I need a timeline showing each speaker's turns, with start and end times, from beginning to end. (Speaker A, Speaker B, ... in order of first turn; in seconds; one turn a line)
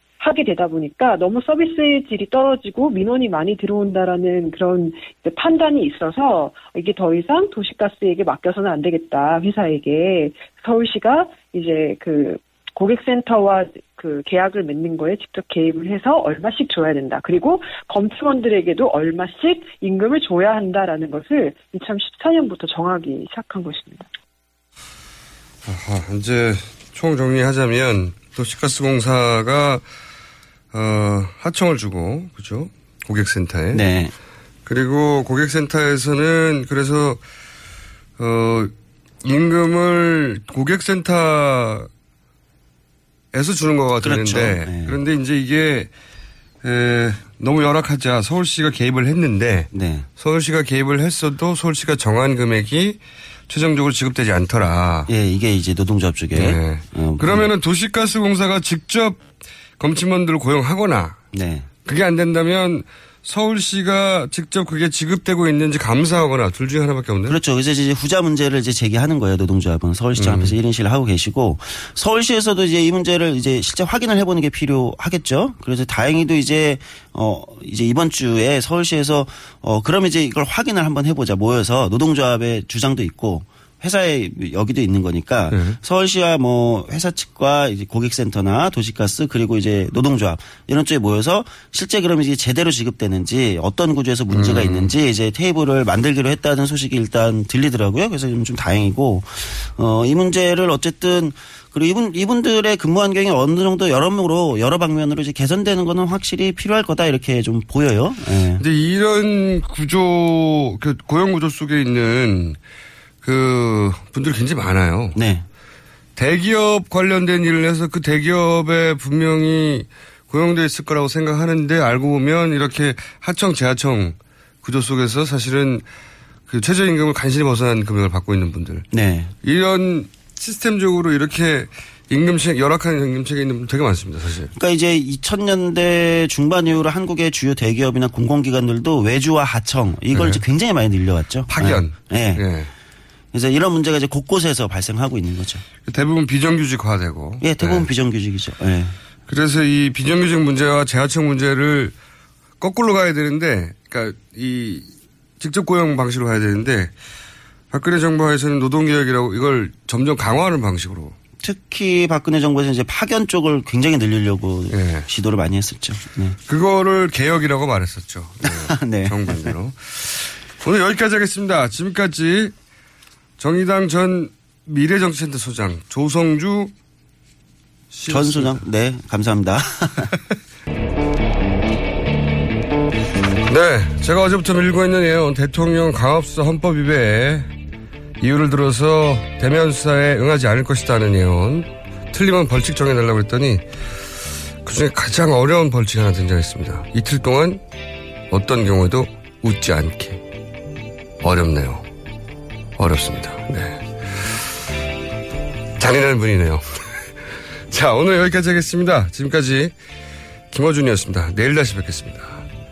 Speaker A: 0.2-24.1
Speaker B: 25.6-29.8
Speaker B: 30.7-33.9
Speaker C: 33.7-34.1
Speaker B: 34.7-37.2
Speaker B: 38.2-41.9
Speaker B: 43.3-45.9
Speaker C: 44.0-45.0
Speaker B: 46.6-55.1
Speaker C: 49.7-50.1
Speaker C: 55.1-57.5
Speaker B: 56.4-59.2
Speaker B: 59.8-61.2
Speaker C: 61.3-61.7
Speaker B: 61.9-67.4
Speaker C: 67.3-108.6
Speaker B: 70.2-70.6
Speaker B: 85.5-85.8
Speaker B: 94.3-94.9
Speaker B: 108.6-112.6
Speaker B: 113.2-115.2
Speaker C: 115.2-115.5
Speaker B: 116.2-125.9
Speaker B: 126.5-128.9
Speaker C: 128.9-129.3
Speaker B: 129.4-134.5
Speaker C: 134.6-142.4
Speaker B: 140.1-140.4
Speaker B: 141.5-142.7
Speaker C: 143.3-145.7
Speaker B: 145.8-147.9
Speaker C: 147.4-149.0
Speaker B: 149.3-151.9
Speaker B: 152.6-154.9
Speaker B: 155.4-156.9
Speaker B: 157.7-161.2
Speaker C: 161.4-166.4
Speaker B: 164.7-165.1
Speaker B: 166.5-172.5
Speaker C: 168.5-169.5
Speaker B: 173.4-176.7
Speaker B: 177.9-178.7
Speaker C: 178.1-180.1
Speaker B: 183.5-187.5
Speaker B: 188.2-193.6
Speaker B: 194.6-197.6
Speaker B: 198.3-200.2
Speaker B: 201.2-201.9
Speaker B: 202.8-204.3
Speaker B: 205.8-206.7
Speaker B: 207.7-209.7
Speaker B: 210.5-212.4